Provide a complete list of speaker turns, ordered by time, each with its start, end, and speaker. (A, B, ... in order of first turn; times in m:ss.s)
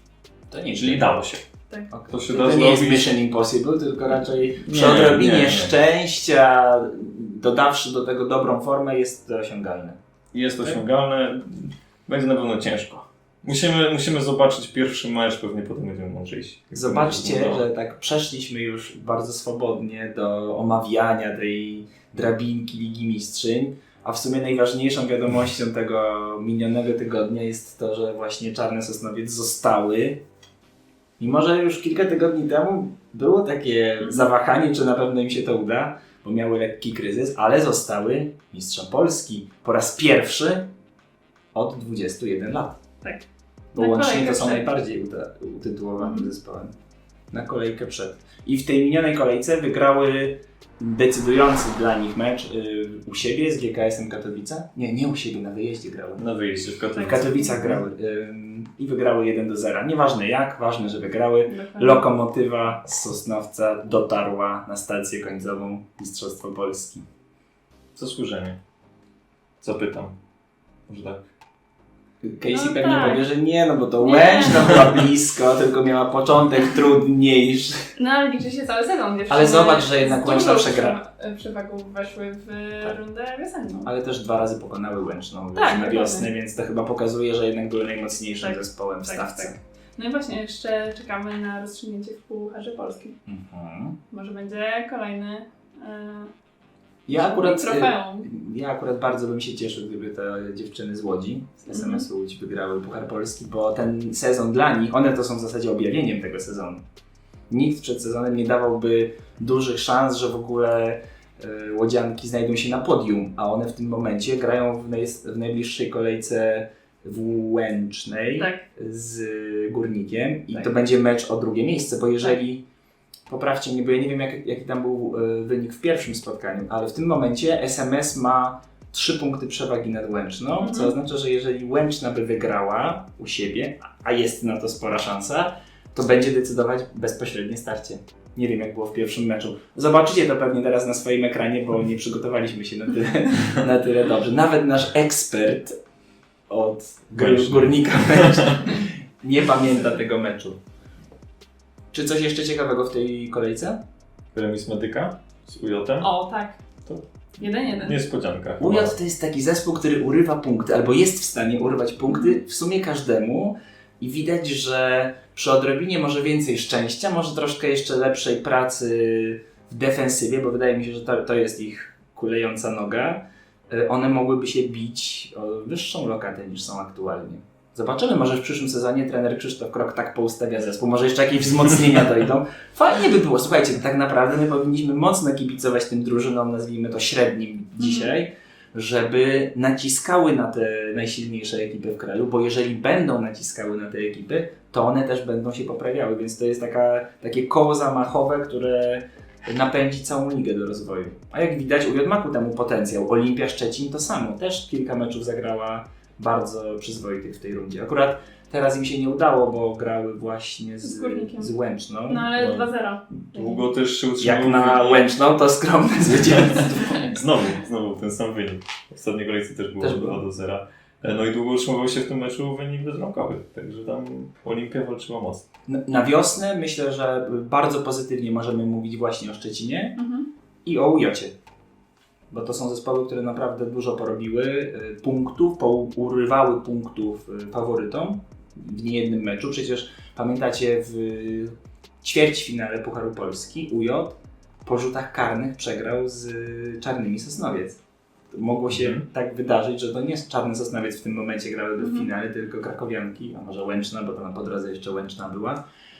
0:00.5-0:01.1 A
0:00.8-0:01.4 B
0:01.9-0:10.0 A
0:02.1-0:03.1 B
0:04.6-0:05.7 B
0:10.3-0:17.6 B
0:16.7-0:30.2 A
0:31.2-0:40.7 A
0:34.0-0:34.3 C
0:41.5-0:42.8 A
0:43.7-0:46.7 A
0:43.8-0:44.6 C
0:46.0-0:46.3 C
0:47.3-0:56.3 A
0:56.2-0:57.8 B
0:56.9-0:57.6 C
0:57.0-1:07.0 A
1:01.5-1:02.1 C
1:08.0-1:08.6 B
1:09.6-1:10.1 B
1:10.9-1:11.3 B
1:12.2-1:17.9 A
1:12.5-1:13.2 C
1:14.0-1:14.8 C
1:18.0-1:23.9 C
1:19.3-1:21.0 A
1:23.8-1:29.6 A
1:25.5-1:26.3 C
1:28.4-1:33.1 C
1:33.2-1:34.0 A
1:34.1-1:36.3 C
1:37.1-1:46.8 A
1:37.1-1:38.3 C
1:41.7-1:42.0 C
1:47.5-2:02.6 A
1:58.4-1:58.6 C
2:03.3-2:25.8 A
2:10.6-2:10.9 C
2:26.5-2:30.6 A
2:27.2-2:28.6 B
2:31.9-2:33.8 A
2:34.3-2:36.1 B
2:36.0-2:36.6 C
2:37.4-2:38.0 C
2:37.7-2:39.0 B
2:38.6-3:32.3 A
2:42.1-2:42.4 C
3:07.8-3:08.1 C
3:30.8-3:31.5 C
3:32.1-3:33.6 C
3:32.3-3:35.1 B
3:34.2-3:37.2 A
3:36.4-3:45.4 B
3:39.8-3:40.2 A
3:45.7-3:50.0 A
3:50.0-3:50.3 C
3:50.6-3:51.3 A
3:52.3-4:07.8 A
4:08.3-4:15.6 A
4:08.7-4:09.0 B
4:11.8-4:12.1 C